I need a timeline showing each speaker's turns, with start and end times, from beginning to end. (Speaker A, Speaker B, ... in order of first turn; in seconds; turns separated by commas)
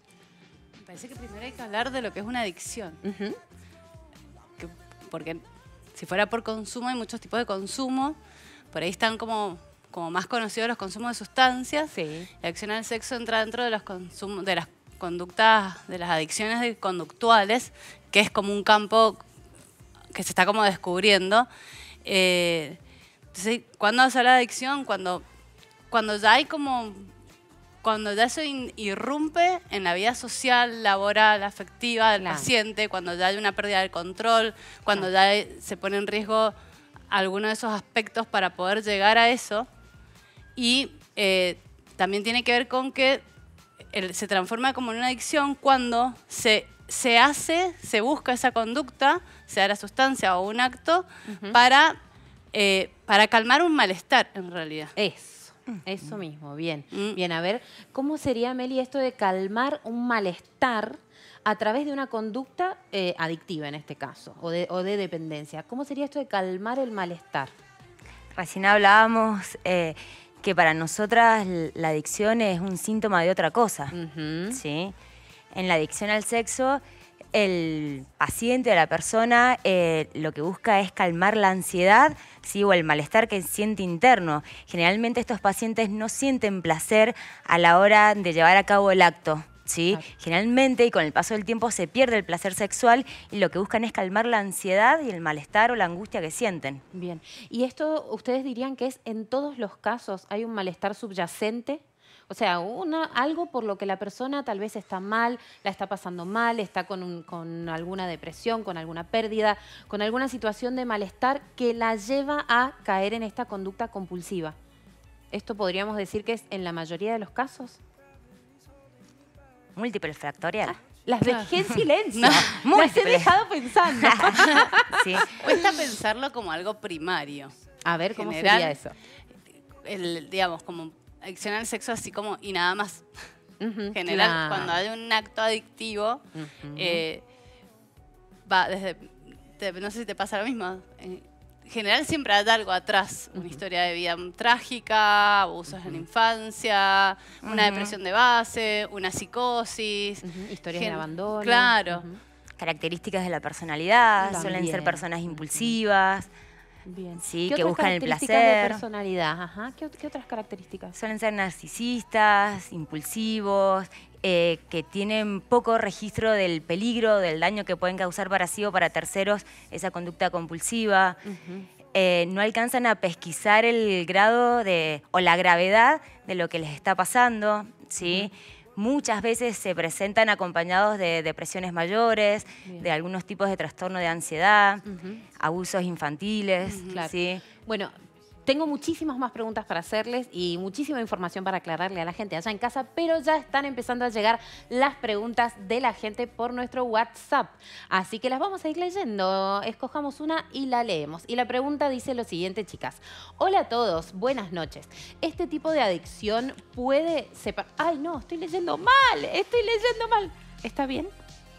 Speaker A: 0.8-3.0, Speaker B: 3.0-3.4, Speaker A: 4.6-5.4, Speaker A: 5.9-8.2, Speaker A: 8.7-19.2, Speaker B: 11.9-12.3, Speaker A: 20.1-21.5, Speaker A: 22.0-22.8, Speaker A: 23.3-25.2, Speaker A: 25.9-27.1, Speaker A: 27.8-36.5, Speaker B: 32.2-32.5, Speaker A: 37.1-39.7, Speaker A: 40.6-43.2, Speaker A: 43.9-52.0, Speaker B: 51.3-51.6, Speaker A: 52.5-54.9, Speaker B: 55.0-67.5, Speaker A: 56.9-57.2, Speaker C: 68.3-74.0, Speaker B: 73.9-74.6, Speaker C: 74.5-75.0, Speaker C: 75.5-76.8, Speaker C: 77.3-96.8, Speaker B: 96.9-114.6, Speaker B: 115.3-117.8, Speaker C: 119.8-120.8, Speaker B: 120.7-125.5, Speaker A: 122.2-122.5, Speaker C: 122.2-123.4, Speaker C: 123.9-125.4, Speaker A: 125.4-127.5, Speaker B: 127.8-128.9, Speaker A: 128.1-128.8, Speaker A: 129.8-133.3, Speaker B: 133.6-134.8, Speaker A: 133.9-136.2, Speaker B: 136.3-137.0, Speaker A: 136.8-137.2, Speaker A: 138.5-152.1, Speaker C: 147.4-147.9, Speaker B: 150.2-152.2, Speaker C: 152.6-156.3, Speaker B: 154.3-155.7, Speaker B: 156.9-161.0, Speaker C: 157.2-158.8, Speaker C: 161.0-171.2, Speaker B: 171.2-171.7, Speaker C: 171.9-184.8, Speaker B: 178.0-178.3, Speaker B: 184.9-185.2, Speaker C: 185.4-187.4, Speaker A: 186.7-187.0, Speaker B: 186.9-187.9, Speaker B: 188.5-211.1